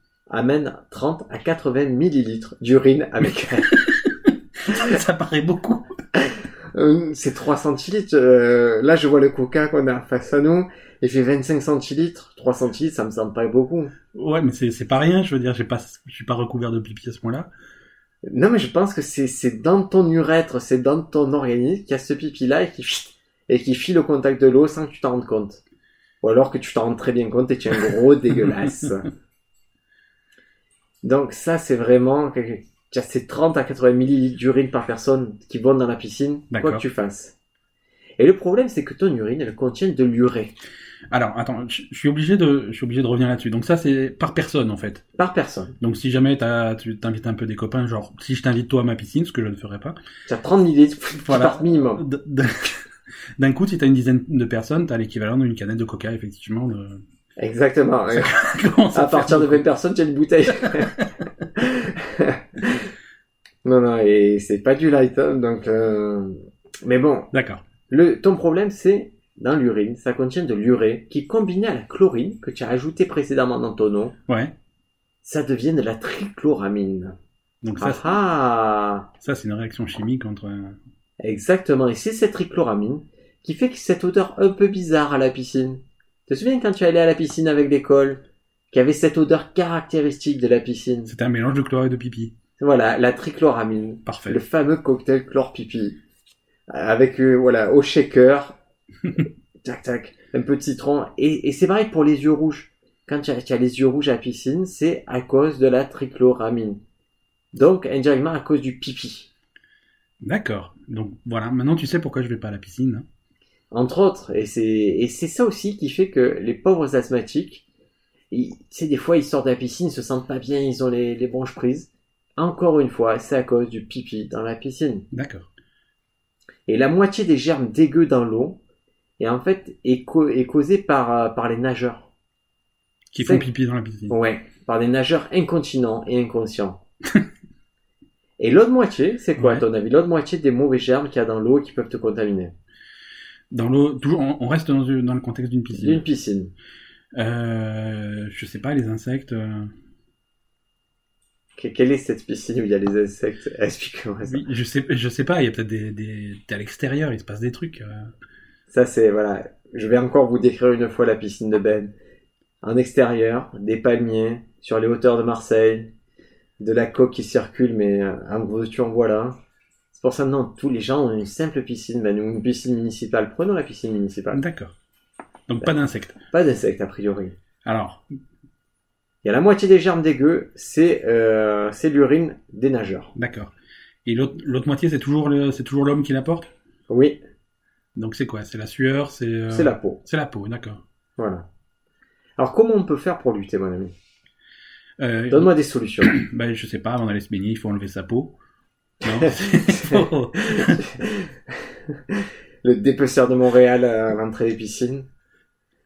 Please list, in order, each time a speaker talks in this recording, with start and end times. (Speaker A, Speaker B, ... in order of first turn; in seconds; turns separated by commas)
Speaker A: 0.3-3.7, Speaker B: 3.7-5.9, Speaker A: 6.7-13.9, Speaker B: 14.1-17.5, Speaker A: 18.2-25.6, Speaker A: 26.2-29.1, Speaker B: 28.4-28.8, Speaker A: 31.0-37.4, Speaker B: 36.5-36.8, Speaker A: 38.2-40.5, Speaker B: 41.1-45.0, Speaker A: 45.2-45.8, Speaker B: 45.8-50.0, Speaker A: 50.3-52.0, Speaker B: 51.2-52.9, Speaker B: 53.4-57.0, Speaker A: 57.4-58.3, Speaker B: 58.1-59.6, Speaker A: 58.9-61.0, Speaker B: 60.7-61.1, Speaker A: 61.5-62.9, Speaker A: 63.6-67.3, Speaker B: 67.3-67.6, Speaker A: 67.9-74.1, Speaker B: 74.3-74.5, Speaker A: 75.2-77.2, Speaker B: 77.6-78.2, Speaker A: 77.8-79.1, Speaker B: 79.2-80.8, Speaker A: 81.2-91.1, Speaker B: 91.1-92.3, Speaker A: 92.6-96.0, Speaker B: 94.0-94.4, Speaker A: 96.7-98.6, Speaker A: 99.6-106.8, Speaker A: 107.5-109.3, Speaker B: 110.2-113.0, Speaker A: 113.7-117.6, Speaker A: 118.3-125.0, Speaker B: 125.1-125.5, Speaker A: 126.7-128.6, Speaker A: 129.2-132.1, Speaker B: 133.1-134.1, Speaker A: 133.2-133.5, Speaker A: 134.1-136.8, Speaker A: 138.4-142.5, Speaker B: 139.4-139.6, Speaker B: 143.5-146.0, Speaker A: 145.7-146.5, Speaker B: 147.1-149.7, Speaker A: 151.6-154.4, Speaker B: 154.2-158.1, Speaker A: 158.7-161.9, Speaker A: 162.6-165.9, Speaker A: 166.6-169.4, Speaker A: 169.9-174.4, Speaker B: 174.3-174.8, Speaker B: 175.5-176.2, Speaker A: 176.3-177.4, Speaker B: 177.6-178.0, Speaker A: 179.2-183.1, Speaker B: 183.2-183.5, Speaker B: 184.0-186.5, Speaker A: 186.9-187.2, Speaker B: 187.9-190.8, Speaker A: 189.5-190.0, Speaker A: 191.2-191.4, Speaker A: 192.4-193.9, Speaker B: 195.0-195.5, Speaker A: 195.3-196.1, Speaker B: 196.0-198.3, Speaker B: 199.0-200.8, Speaker A: 199.1-205.1